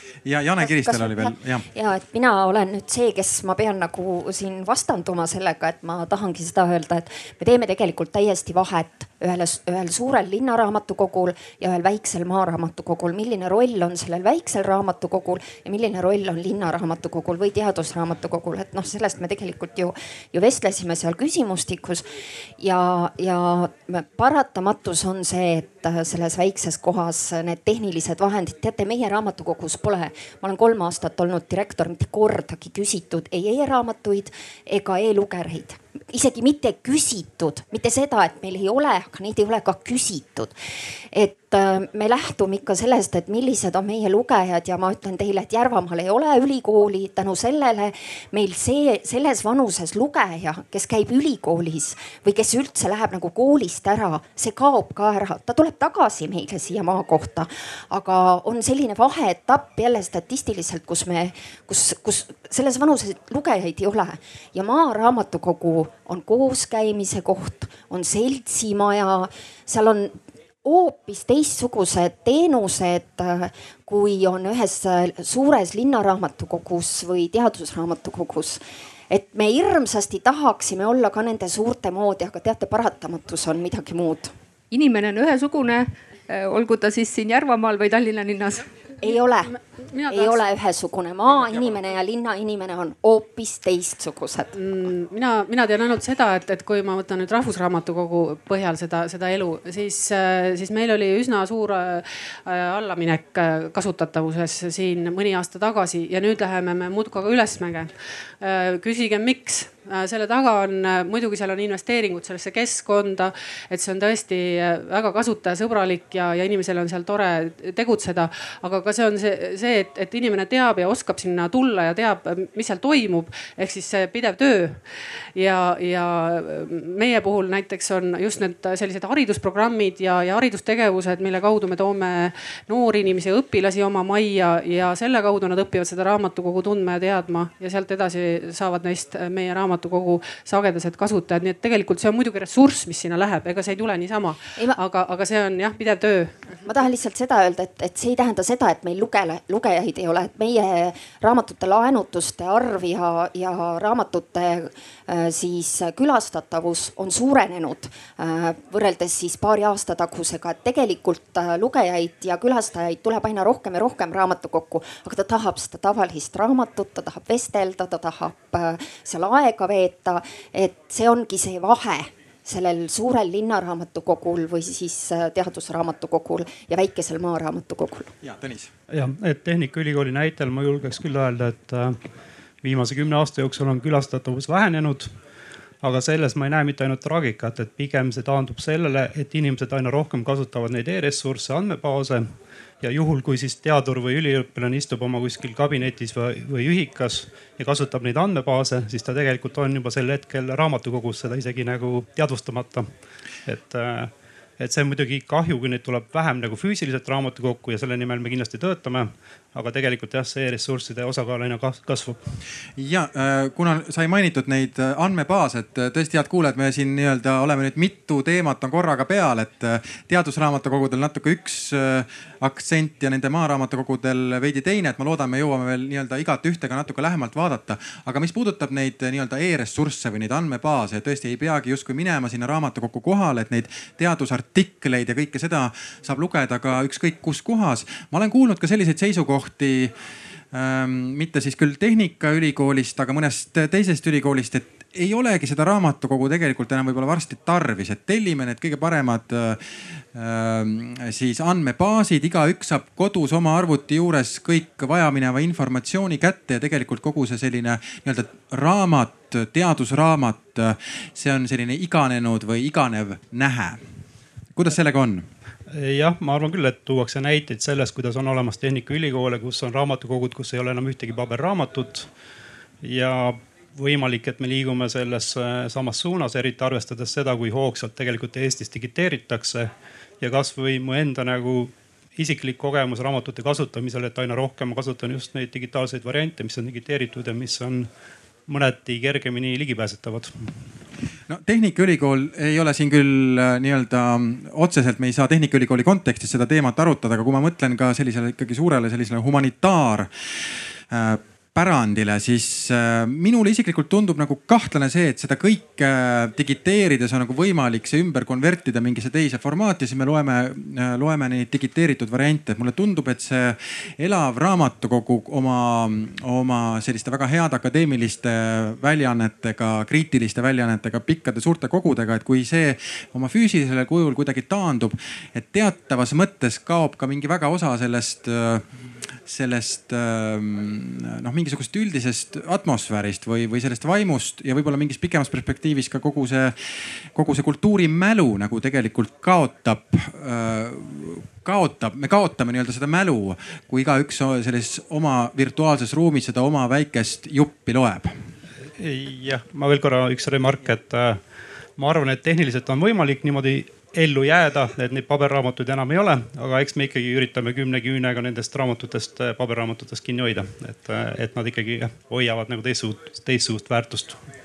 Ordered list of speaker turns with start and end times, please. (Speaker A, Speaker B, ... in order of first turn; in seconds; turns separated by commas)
Speaker A: 0.2-1.6, Speaker B: 0.6-22.0, Speaker B: 22.6-40.5, Speaker B: 41.1-84.3, Speaker C: 84.7-88.7, Speaker B: 89.0-89.5, Speaker D: 89.0-90.4, Speaker B: 90.1-94.5, Speaker D: 94.5-124.8, Speaker D: 125.3-146.3, Speaker B: 146.7-178.1, Speaker A: 178.2-178.7, Speaker E: 178.9-182.0, Speaker E: 182.6-185.1, Speaker E: 185.8-202.9, Speaker E: 203.4-212.2, Speaker A: 212.8-239.9, Speaker A: 240.5-263.8, Speaker A: 264.5-265.3, Speaker E: 265.7-272.1, Speaker E: 272.8-287.9, Speaker E: 288.5-290.5, Speaker A: 291.3-300.1, Speaker A: 300.9-328.6, Speaker A: 329.2-336.5, Speaker A: 337.1-348.1, Speaker E: 348.8-351.2, Speaker E: 351.8-364.2